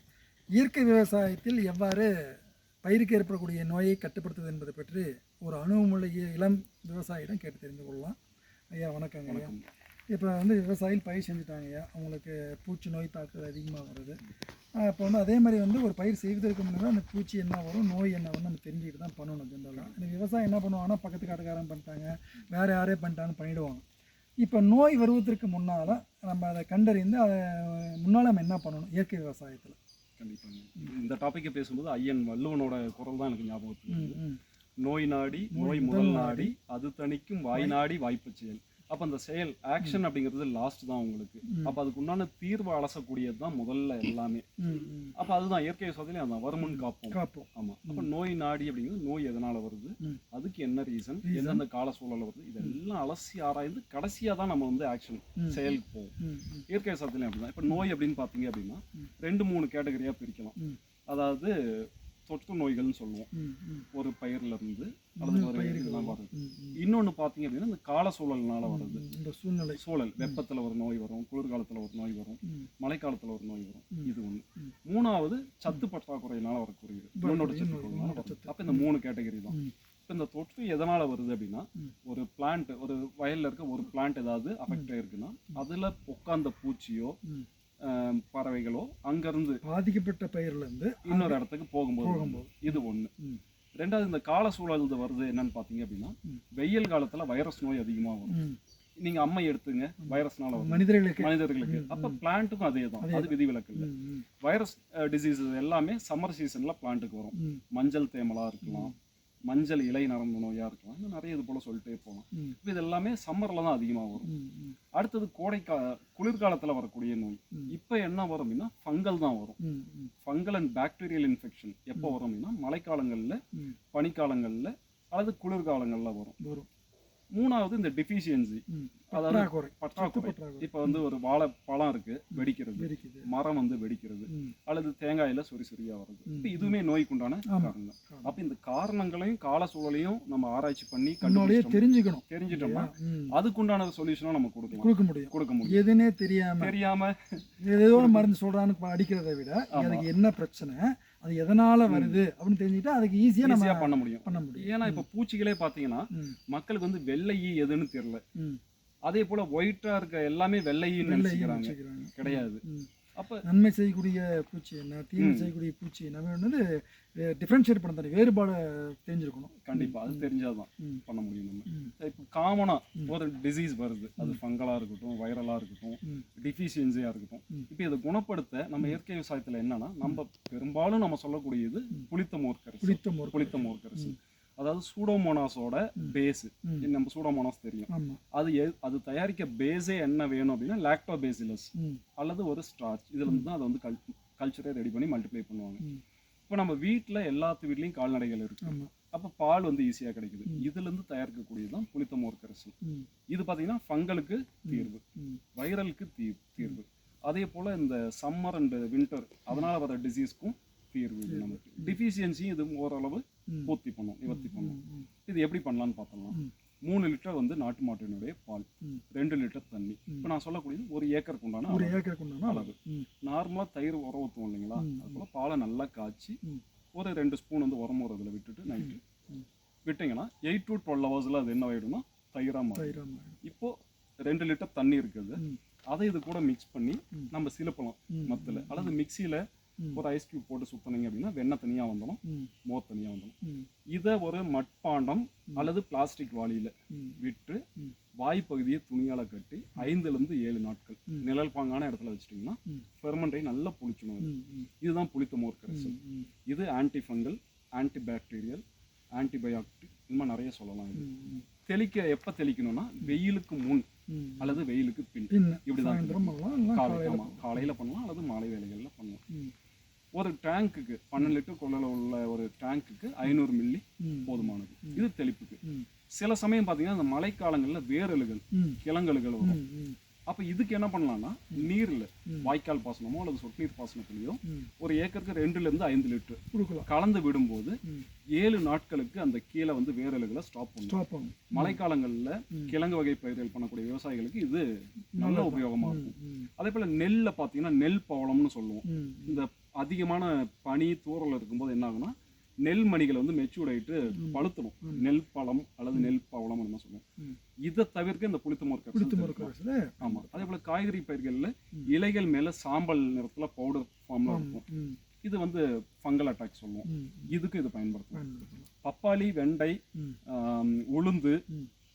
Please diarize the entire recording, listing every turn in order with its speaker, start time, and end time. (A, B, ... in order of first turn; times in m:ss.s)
0:00.6-0:08.2 A
0:08.7-0:09.5 A
0:09.3-0:09.6 B
0:10.1-0:14.2 A
0:14.8-0:23.8 A
0:24.4-0:29.8 A
0:30.2-0:34.2 B
0:33.9-0:34.4 A
0:34.8-0:44.4 B
0:35.5-0:36.5 A
0:41.5-0:41.8 A
0:44.6-0:45.1 A
0:45.2-0:56.1 B
0:46.6-0:48.1 A
0:51.2-0:51.6 A
0:55.4-0:55.6 A
0:56.2-0:56.6 A
0:56.7-1:00.6 B
1:01.1-1:03.3 B
1:03.3-1:03.9 A
1:03.9-1:09.0 B
1:05.2-1:06.8 A
1:08.6-1:10.4 A
1:09.7-1:19.6 B
1:13.9-1:14.7 A
1:17.2-1:18.9 A
1:20.1-1:27.2 B
1:27.8-1:29.6 B
1:29.6-1:31.4 A
1:31.0-1:33.1 B
1:32.0-1:33.4 A
1:33.8-1:38.4 B
1:38.3-1:38.6 A
1:39.0-1:43.9 B
1:40.0-1:42.2 A
1:43.0-1:44.2 A
1:44.4-1:48.9 B
1:47.4-1:47.6 A
1:48.6-1:48.9 A
1:49.5-1:54.3 B
1:54.2-1:54.8 A
1:54.9-1:59.6 B
1:59.6-2:00.1 A
2:00.2-2:03.4 B
2:03.9-2:06.4 B
2:06.4-2:06.7 A
2:07.3-2:25.8 B
2:08.7-2:11.0 A
2:12.3-2:13.3 A
2:14.3-2:14.5 A
2:16.3-2:16.7 A
2:17.5-2:18.4 A
2:21.2-2:23.4 A
2:24.7-2:26.7 A
2:26.6-2:28.3 B
2:27.6-2:35.0 A
2:29.7-2:30.1 B
2:31.9-2:32.2 B
2:33.4-2:38.2 B
2:39.0-2:42.6 B
2:41.0-2:42.9 A
2:43.1-2:43.4 B
2:43.4-2:46.6 A
2:45.2-2:45.5 B
2:47.2-2:50.2 A
2:49.6-3:15.8 B
3:02.8-3:04.1 A
3:07.9-3:08.2 A
3:16.5-3:22.7 B
3:18.6-3:18.9 A
3:23.3-3:25.0 B
3:24.6-3:25.4 A
3:25.5-3:46.4 B
3:31.2-3:32.0 A
3:33.5-3:33.7 A
3:34.3-3:35.1 A
3:41.7-3:43.1 A
3:44.8-3:45.2 A
3:46.9-3:49.0 B
3:48.7-3:49.4 A
3:49.8-3:59.4 B
3:52.7-3:53.4 A
3:58.1-3:58.9 A
3:59.9-4:03.3 B
4:02.2-4:02.5 A
4:03.9-4:07.6 B
4:08.2-4:14.3 B
4:14.2-4:14.7 A
4:14.8-4:15.9 B
4:15.7-4:16.3 A
4:16.5-4:18.6 B
4:19.1-4:21.1 B
4:21.0-4:21.4 A
4:21.7-4:23.9 B
4:24.1-4:24.6 A
4:24.4-4:29.2 B
4:25.3-4:27.6 A
4:30.1-4:35.6 B
4:34.0-4:35.0 A
4:36.1-4:39.6 B
4:38.5-4:38.8 A
4:39.4-4:40.0 A
4:40.3-4:47.8 B
4:46.5-4:46.9 A
4:48.3-4:51.0 B
4:50.9-4:51.8 A
4:51.5-5:07.0 B
4:55.1-4:56.5 A
4:58.8-4:59.4 A
5:04.1-5:05.0 A
5:07.6-5:14.6 B
5:08.9-5:10.5 A
5:14.3-5:15.0 A
5:15.2-5:18.2 B
5:16.8-5:17.4 A
5:18.1-5:18.7 A
5:18.8-5:19.8 B
5:20.3-5:21.4 B